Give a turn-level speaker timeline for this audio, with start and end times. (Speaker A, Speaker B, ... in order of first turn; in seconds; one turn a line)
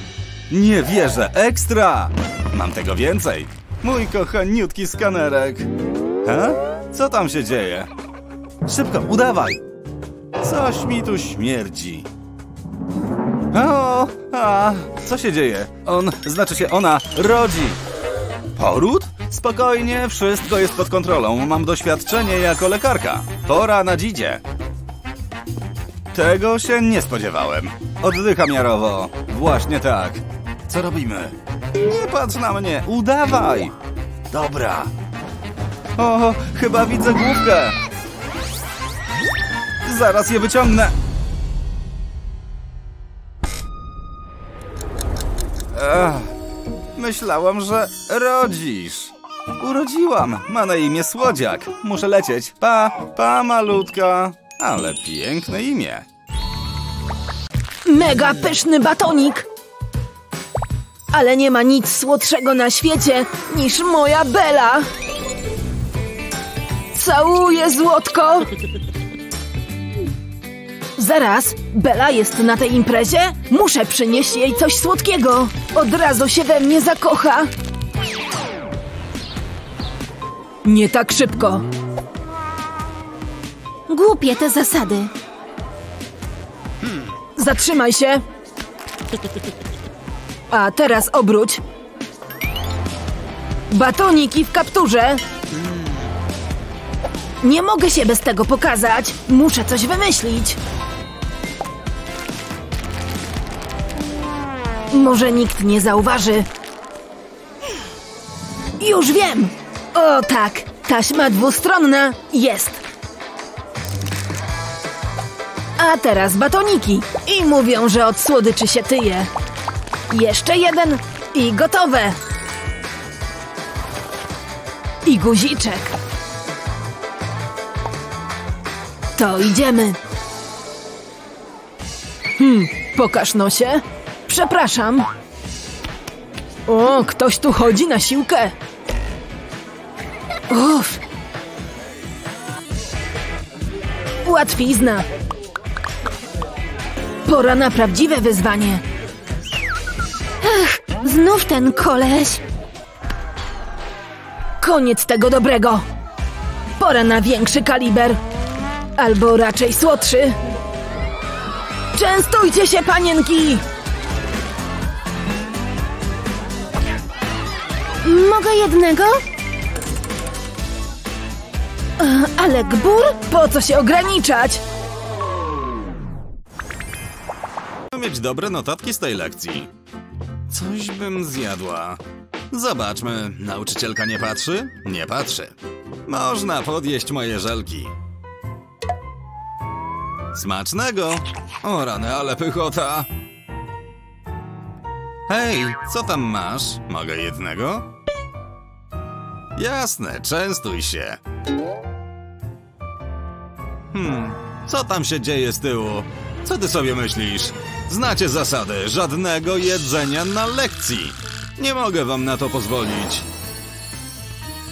Speaker A: 0.5-5.7
Speaker A: 6.2-7.9
Speaker A: 8.7-9.6
Speaker A: 10.4-12.1
Speaker A: 13.5-17.8
Speaker A: 18.6-24.4
Speaker A: 26.1-33.7
Speaker A: 34.3-34.9
Speaker A: 36.0-37.8
Speaker A: 39.8-41.0
Speaker A: 45.7-46.3
Speaker A: 46.9-56.0
Speaker B: 57.9-59.5
Speaker B: 61.1-64.9
Speaker B: 66.9-68.5
Speaker B: 71.0-77.5
Speaker B: 80.6-81.7
Speaker C: 83.9-85.1
Speaker B: 87.3-88.2
Speaker B: 90.5-91.6
Speaker B: 93.7-95.2
Speaker B: 97.4-100.6
Speaker B: 104.9-106.5
Speaker B: 108.8-112.8
Speaker B: 115.8-119.3
Speaker B: 120.1-122.2
Speaker B: 125.0-125.9
Speaker B: 129.2-130.0
Speaker B: 132.4-135.1
Speaker B: 136.7-138.5
Speaker B: 140.5-141.0
Speaker B: 144.2-145.0
Speaker B: 147.2-148.8
Speaker C: 150.4-152.4
Speaker B: 154.6-155.8
Speaker B: 156.8-158.2
Speaker B: 159.0-160.4
Speaker B: 161.9-163.6
Speaker C: 168.0-169.2
Speaker B: 172.0-174.6
Speaker A: 177.9-179.7
Speaker A: 180.5-187.9
Speaker A: 190.3-193.1
Speaker A: 195.3-197.9
Speaker A: 199.5-201.2
Speaker A: 203.9-213.3